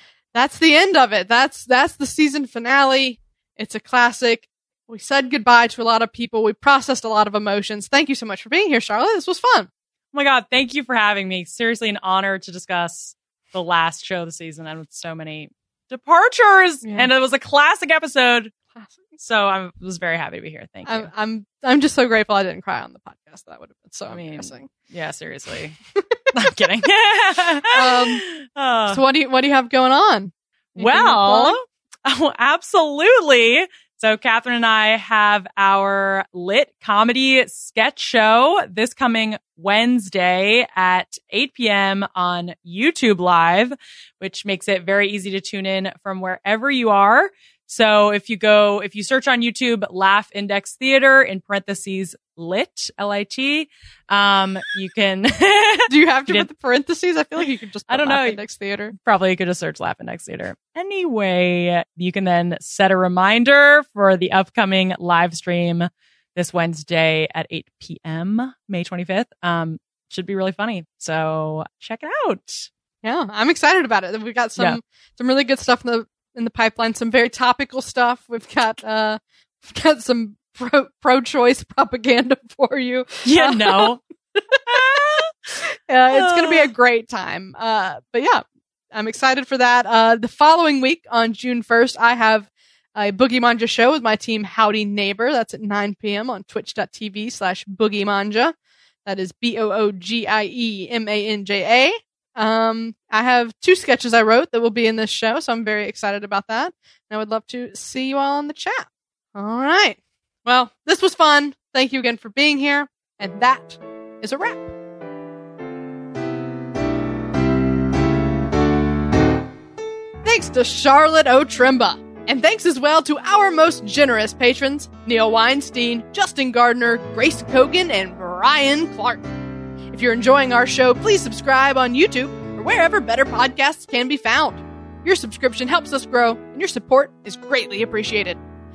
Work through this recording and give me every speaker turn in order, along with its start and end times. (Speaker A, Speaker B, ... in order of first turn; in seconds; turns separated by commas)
Speaker A: 0.3-9.7, Speaker B: 10.1-18.5, Speaker A: 16.8-17.1, Speaker A: 18.8-19.2, Speaker B: 19.2-21.1, Speaker A: 20.9-24.7, Speaker B: 24.1-25.8, Speaker B: 26.3-29.0, Speaker A: 27.7-28.2, Speaker A: 28.9-31.6, Speaker B: 30.8-56.5, Speaker A: 55.9-58.9, Speaker B: 57.9-58.4, Speaker B: 58.9-72.7, Speaker A: 73.0-88.4, Speaker B: 83.2-84.0, Speaker B: 84.7-85.3, Speaker B: 86.1-86.7, Speaker A: 88.9-114.7, Speaker A: 120.2-129.3, Speaker A: 129.9-138.4